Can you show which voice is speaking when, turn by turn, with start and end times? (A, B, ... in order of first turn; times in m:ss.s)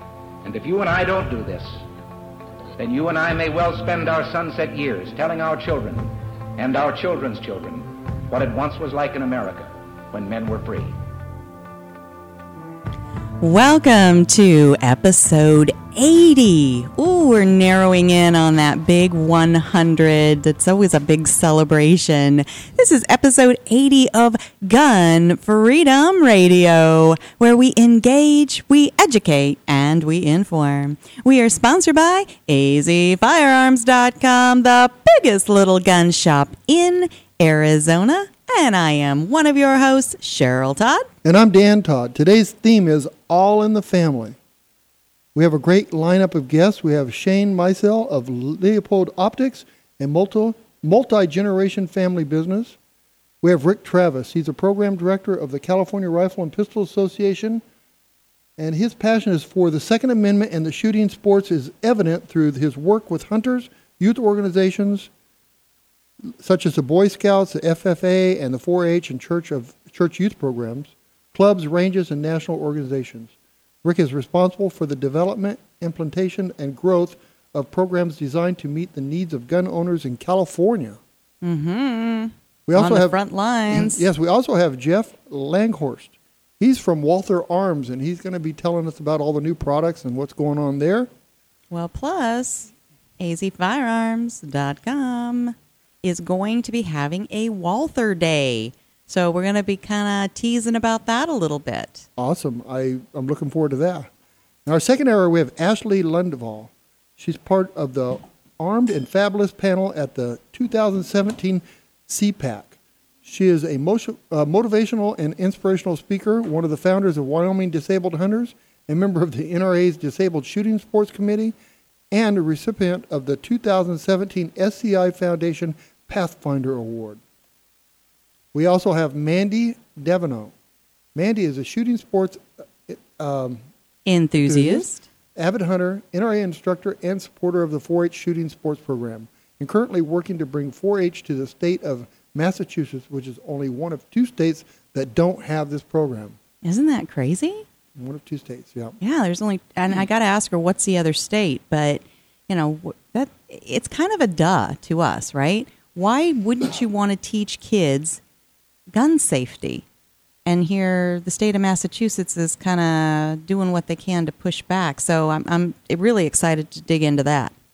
0:00.4-0:01.8 A
0:02.8-0:11.0 A
0:13.4-0:41.1 B
0:41.2-0:44.4 C
0:45.3-0:52.8 C
0:53.4-0:57.6 C
0:58.6-1:05.1 C
1:06.3-1:13.3 C
1:13.8-1:21.0 C
1:21.4-1:24.0 B
1:22.7-1:23.2 C
1:23.7-1:31.1 C
1:31.7-1:42.1 B
1:42.2-1:44.1 C
1:44.6-2:01.5 C
2:02.1-2:07.2 C
2:08.5-2:10.5 C
2:11.1-2:13.6 C
2:14.0-2:15.0 B
2:14.4-2:26.4 C
2:26.6-2:27.6 B
2:28.0-2:29.0 C
2:29.0-2:38.2 B
2:38.9-2:39.8 B
2:40.4-2:47.5 B